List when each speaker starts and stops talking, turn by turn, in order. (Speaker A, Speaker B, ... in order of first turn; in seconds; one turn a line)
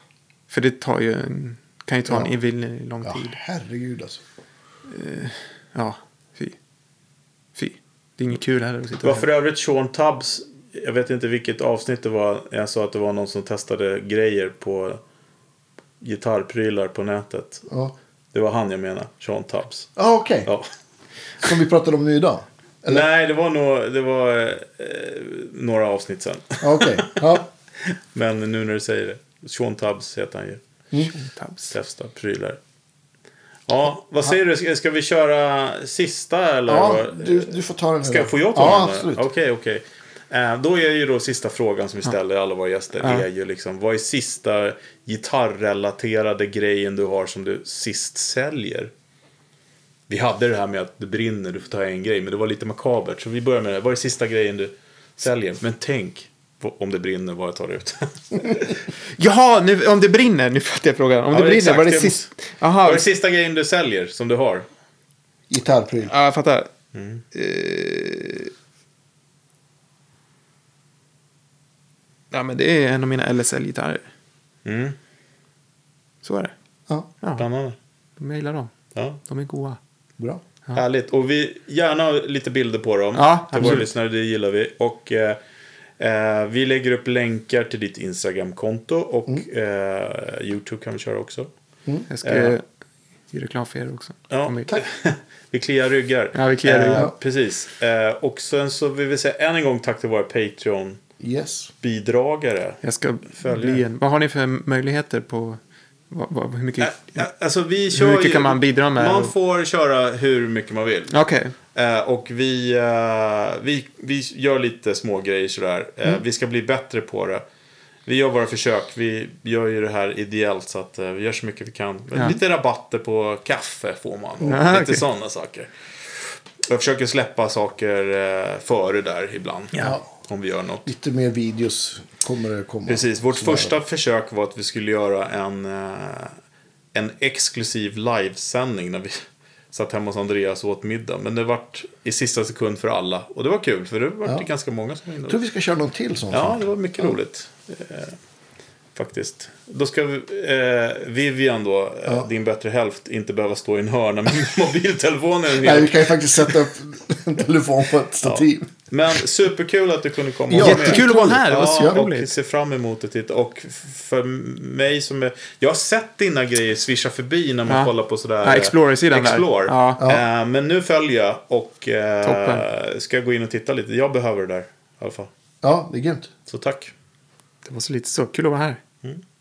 Speaker A: 0.5-3.4
Speaker B: 2.1-2.3
Speaker B: 3.0-4.2
Speaker A: 4.9-6.5
Speaker A: 7.5-9.3
Speaker C: 9.0-15.0
Speaker C: 16.0-17.6
Speaker B: 17.7-17.9
Speaker C: 18.3-19.9
Speaker B: 19.9-20.5
Speaker B: 21.4-23.0
Speaker C: 22.9-30.6
Speaker B: 26.6-27.5
Speaker A: 31.1-31.7
Speaker C: 31.7-32.6
Speaker C: 33.7-48.9
Speaker B: 36.7-39.2
Speaker A: 43.0-43.3
Speaker C: 50.1-58.8
Speaker A: 59.1-63.0
Speaker C: 61.3-62.3
Speaker C: 62.8-64.7
Speaker B: 65.5-66.1
Speaker A: 66.0-66.7
Speaker C: 66.9-67.2
Speaker A: 67.3-68.5
Speaker A: 72.3-74.0
Speaker C: 74.6-75.0
Speaker A: 76.2-76.5
Speaker A: 77.2-77.5
Speaker C: 77.3-77.8
Speaker A: 78.2-79.8
Speaker C: 78.9-79.2
Speaker C: 80.7-85.4
Speaker A: 83.1-83.8
Speaker C: 86.0-91.5
Speaker A: 92.1-92.6
Speaker C: 92.2-92.5
Speaker A: 93.3-94.8
Speaker C: 94.3-101.0
Speaker A: 96.3-97.1
Speaker B: 101.2-101.7
Speaker C: 101.8-102.8
Speaker A: 102.8-107.2
Speaker C: 103.3-103.8
Speaker C: 106.8-111.1
Speaker A: 107.9-109.3
Speaker A: 111.1-111.5
Speaker C: 111.7-117.4
Speaker C: 118.0-130.9
Speaker A: 124.5-125.0
Speaker B: 129.8-130.0
Speaker B: 130.8-133.7
Speaker C: 132.9-136.3
Speaker C: 136.9-145.4
Speaker B: 145.3-147.1
Speaker C: 146.3-148.2
Speaker C: 148.9-156.6
Speaker B: 155.6-158.7
Speaker C: 158.2-175.3
Speaker B: 160.5-161.1
Speaker A: 160.6-162.3
Speaker A: 167.7-170.1
Speaker A: 172.2-172.7
Speaker B: 175.6-176.3
Speaker C: 176.5-176.9
Speaker A: 177.6-178.8